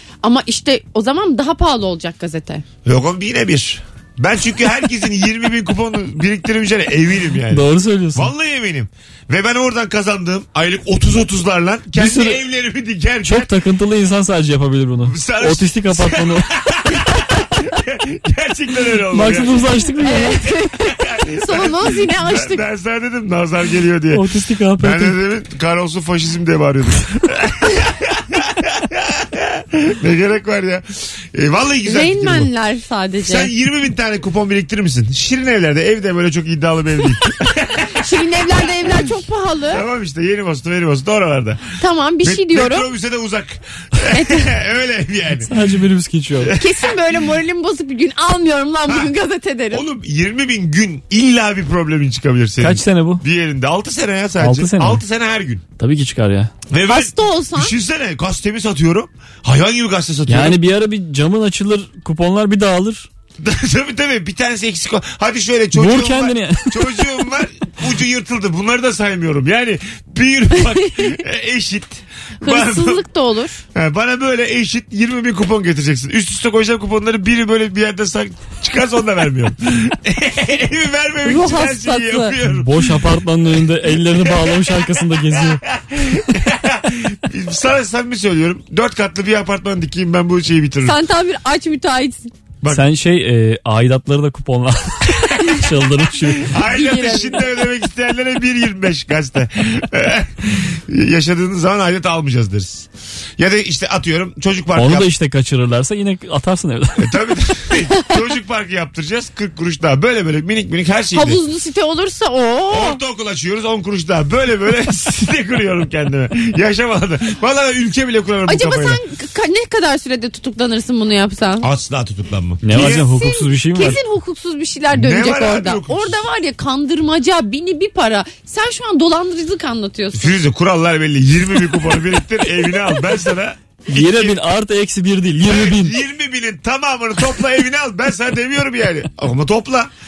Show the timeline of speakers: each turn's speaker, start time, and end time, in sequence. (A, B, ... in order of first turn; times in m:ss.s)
0:00.2-0:02.6 A
0:02.8-0:13.5 B
0:07.5-0:08.3 C
0:11.9-0:12.4 C
0:13.2-0:16.5 C
0:15.0-0:19.7 B
0:19.1-0:20.4 C
0:20.0-0:22.6 A
0:20.8-0:24.2 B
0:24.1-0:25.2 C
0:24.8-0:32.5 B
0:31.8-0:33.5 A
0:33.2-0:38.1 B
0:38.0-0:39.8 A
0:38.8-0:39.0 B
0:39.7-0:45.5 B
0:41.8-0:42.9 A
0:44.0-0:44.5 A
0:45.4-0:46.6 C
0:46.4-0:47.0 B
0:46.6-0:49.8 A
0:48.9-0:49.1 B
0:49.7-0:55.6 B
0:52.6-0:53.2 C
0:54.4-0:55.0 C
0:55.8-0:56.5 C
0:56.7-1:00.6 B
0:56.9-0:57.7 A
1:00.3-1:03.1 C
1:03.4-1:13.0 B
1:05.7-1:07.0 C
1:12.4-1:13.6 A
1:13.7-1:23.0 B
1:21.2-1:22.3 A
1:22.4-1:25.6 C
1:23.8-1:31.0 B
1:30.8-1:32.3 A
1:32.7-1:36.5 C
1:36.4-1:45.1 B
1:36.7-1:37.5 A
1:44.8-1:47.1 C
1:47.0-1:51.4 B
1:51.1-1:53.0 A
1:52.7-1:59.0 B
1:58.4-2:01.7 A
2:01.6-2:03.1 B
2:02.6-2:04.0 C
2:02.7-2:10.3 A
2:04.9-2:06.2 B
2:10.1-2:14.4 B
2:13.9-2:16.0 C
2:15.4-2:19.9 B